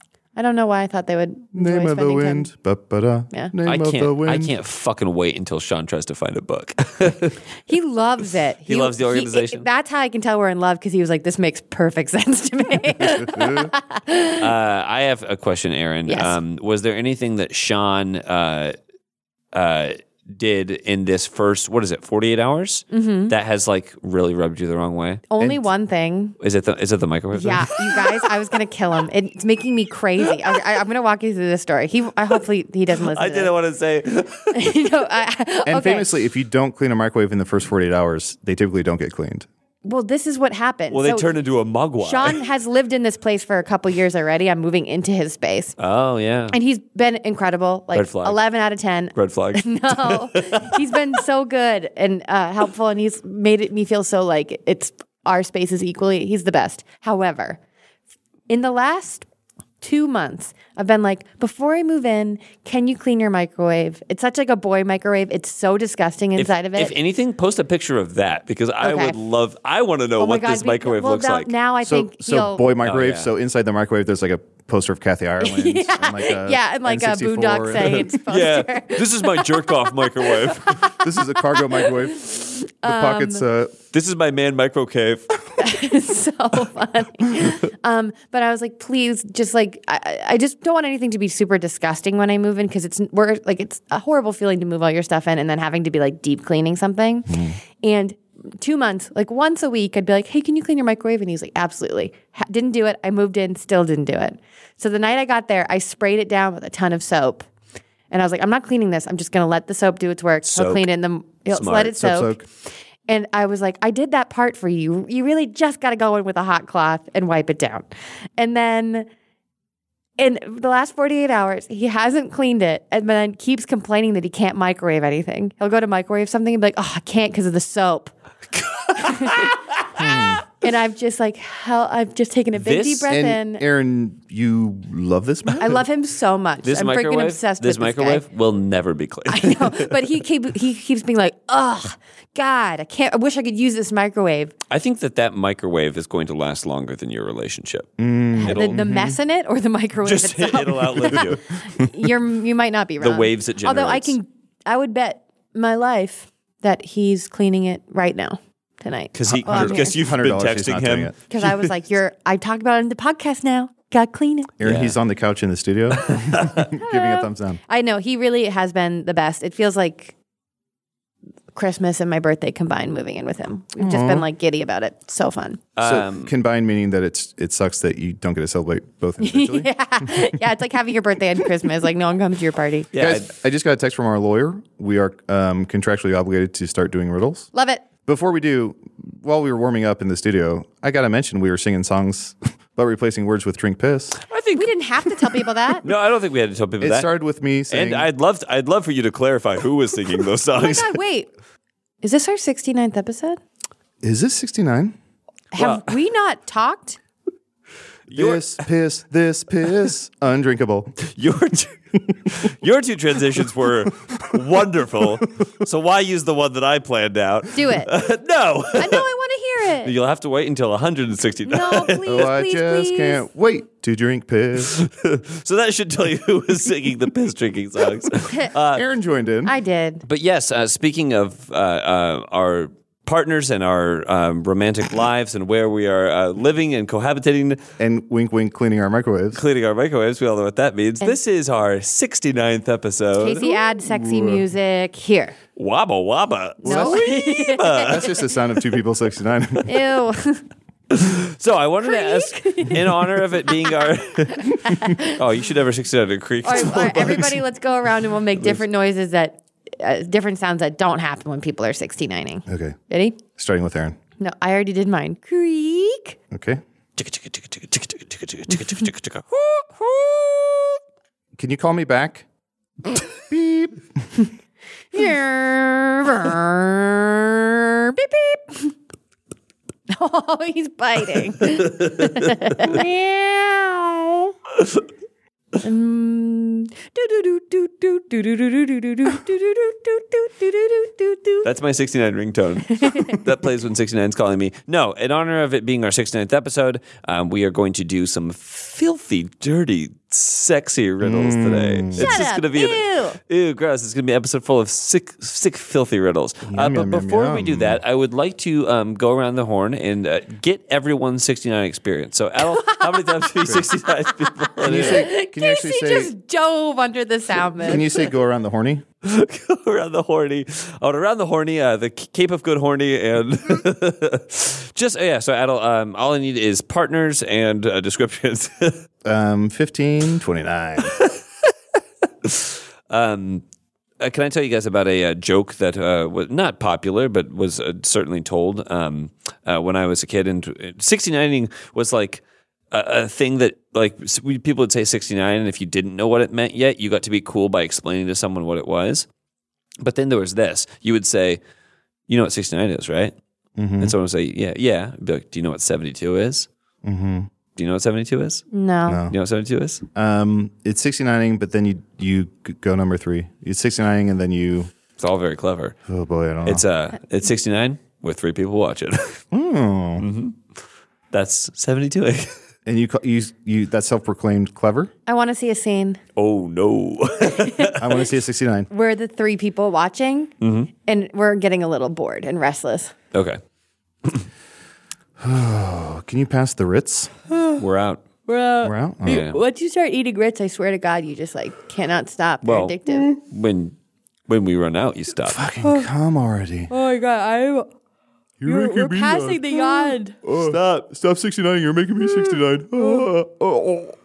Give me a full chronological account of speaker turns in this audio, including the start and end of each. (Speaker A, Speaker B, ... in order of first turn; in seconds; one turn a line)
Speaker A: 0.3-2.5
Speaker B: 1.5-4.5
Speaker C: 3.6-7.4
Speaker A: 7.7-14.4
Speaker C: 8.7-9.7
Speaker B: 13.0-13.7
Speaker C: 14.4-18.8
Speaker A: 16.1-16.4
Speaker C: 19.5-25.2
Speaker A: 22.9-23.3
Speaker A: 25.3-26.3
Speaker B: 25.4-25.7
Speaker C: 26.4-28.2
Speaker A: 27.3-33.5
Speaker C: 33.1-34.8
Speaker A: 34.5-36.1
Speaker B: 35.6-39.5
Speaker A: 39.8-41.3
Speaker C: 40.9-42.4
Speaker A: 42.0-45.8
Speaker C: 45.8-46.5
Speaker A: 46.5-57.6
Speaker C: 47.9-48.4
Speaker C: 49.1-51.2
Speaker A: 58.5-59.2
Speaker A: 59.8-66.9
Speaker C: 66.3-71.5
Speaker A: 68.8-69.2
Speaker A: 70.2-72.7
Speaker B: 71.8-78.0
Speaker C: 72.8-73.3
Speaker A: 75.4-83.4
Speaker C: 77.9-80.9
Speaker B: 81.0-82.3
Speaker B: 82.8-83.8
Speaker C: 83.9-85.4
Speaker A: 85.6-97.3
Speaker B: 97.3-97.6
Speaker A: 97.8-107.5
Speaker A: 108.1-112.4
Speaker C: 110.4-110.9
Speaker C: 111.5-112.0
Speaker B: 111.9-112.4
Speaker A: 113.1-119.1
Speaker A: 120.2-128.1
Speaker C: 128.5-129.6
Speaker A: 129.0-129.5
Speaker B: 129.9-130.4
Speaker A: 130.6-133.6
Speaker C: 132.5-133.1
Speaker B: 133.1-135.8
Speaker A: 135.6-138.2
Speaker C: 136.6-140.0
Speaker A: 139.3-144.5
Speaker C: 144.7-147.9
Speaker B: 148.0-149.2
Speaker A: 148.4-159.9
Speaker C: 148.4-148.8
Speaker C: 150.0-151.4
Speaker C: 153.0-154.2
Speaker C: 159.1-161.7
Speaker B: 159.3-161.1
Speaker A: 161.3-164.5
Speaker B: 164.6-167.6
Speaker C: 164.6-165.0
Speaker C: 166.1-166.7
Speaker A: 166.8-170.1
Speaker A: 171.5-175.6
Speaker B: 173.8-174.2
Speaker C: 175.8-176.3
Speaker B: 175.8-180.1
Speaker A: 179.2-182.9
Speaker C: 182.9-183.3
Speaker B: 183.0-187.5
Speaker A: 187.5-187.8
Speaker B: 188.0-194.2
Speaker C: 194.2-197.1
Speaker A: 194.5-195.9
Speaker B: 196.8-198.1
Speaker C: 197.7-201.0
Speaker A: 200.5-201.3
Speaker A: 202.0-203.4
Speaker B: 204.0-204.9
Speaker A: 205.5-207.0
Speaker C: 205.6-205.9
Speaker C: 208.1-208.6
Speaker B: 208.1-210.9
Speaker C: 211.0-219.1
Speaker A: 217.5-217.9
Speaker A: 218.8-219.9
Speaker C: 219.8-222.3
Speaker A: 221.4-223.2
Speaker B: 222.1-224.7
Speaker C: 224.6-228.8
Speaker B: 228.7-229.5
Speaker A: 229.4-230.0
Speaker C: 230.1-237.6
Speaker B: 237.8-239.4
Speaker C: 239.3-243.5
Speaker A: 243.2-245.3
Speaker B: 243.4-244.4
Speaker C: 245.6-248.1
Speaker A: 246.6-248.1
Speaker B: 246.6-249.9
Speaker A: 249.6-250.4
Speaker C: 250.9-257.4
Speaker A: 251.8-255.2
Speaker A: 256.4-263.2
Speaker B: 262.5-262.8
Speaker B: 263.3-264.0
Speaker A: 264.2-266.2
Speaker B: 266.3-266.6
Speaker C: 267.0-270.7
Speaker B: 271.4-272.2
Speaker B: 273.2-274.1
Speaker A: 274.9-278.7
Speaker A: 279.9-284.3
Speaker C: 281.8-282.7
Speaker A: 285.6-291.5
Speaker C: 291.4-315.1
Speaker A: 292.8-293.2
Speaker B: 301.0-302.2
Speaker A: 301.9-303.2
Speaker B: 306.4-307.8
Speaker A: 312.4-313.8
Speaker A: 314.3-318.1
Speaker B: 314.6-316.1
Speaker B: 317.6-318.8
Speaker C: 319.0-328.8
Speaker B: 329.0-331.0
Speaker C: 330.8-331.2
Speaker C: 332.2-333.4
Speaker C: 334.0-349.1
Speaker C: 349.8-351.4
Speaker C: 352.1-353.1
Speaker B: 353.6-353.9
Speaker C: 353.8-356.5
Speaker B: 356.8-357.3
Speaker C: 357.6-358.4
Speaker A: 358.5-359.0
Speaker B: 358.9-359.1
Speaker C: 359.1-359.8
Speaker B: 359.9-364.7
Speaker C: 365.0-365.7
Speaker B: 365.9-366.6
Speaker C: 366.4-369.2
Speaker B: 369.3-370.1
Speaker C: 370.0-370.4
Speaker C: 371.1-372.3
Speaker B: 372.6-374.9
Speaker A: 375.1-376.0
Speaker C: 376.1-377.8
Speaker A: 377.3-377.7
Speaker B: 377.8-378.7
Speaker A: 378.7-380.3
Speaker C: 380.4-380.7
Speaker A: 380.9-382.9
Speaker C: 383.1-383.4
Speaker B: 385.2-387.1
Speaker A: 387.3-387.6
Speaker C: 387.6-388.0
Speaker A: 388.3-393.1
Speaker B: 388.6-389.2
Speaker C: 389.1-389.4
Speaker C: 392.4-393.7
Speaker C: 394.3-395.5
Speaker B: 395.2-396.7
Speaker A: 395.6-395.9
Speaker A: 396.7-397.7
Speaker B: 398.4-403.9
Speaker A: 398.4-400.2
Speaker C: 400.4-400.8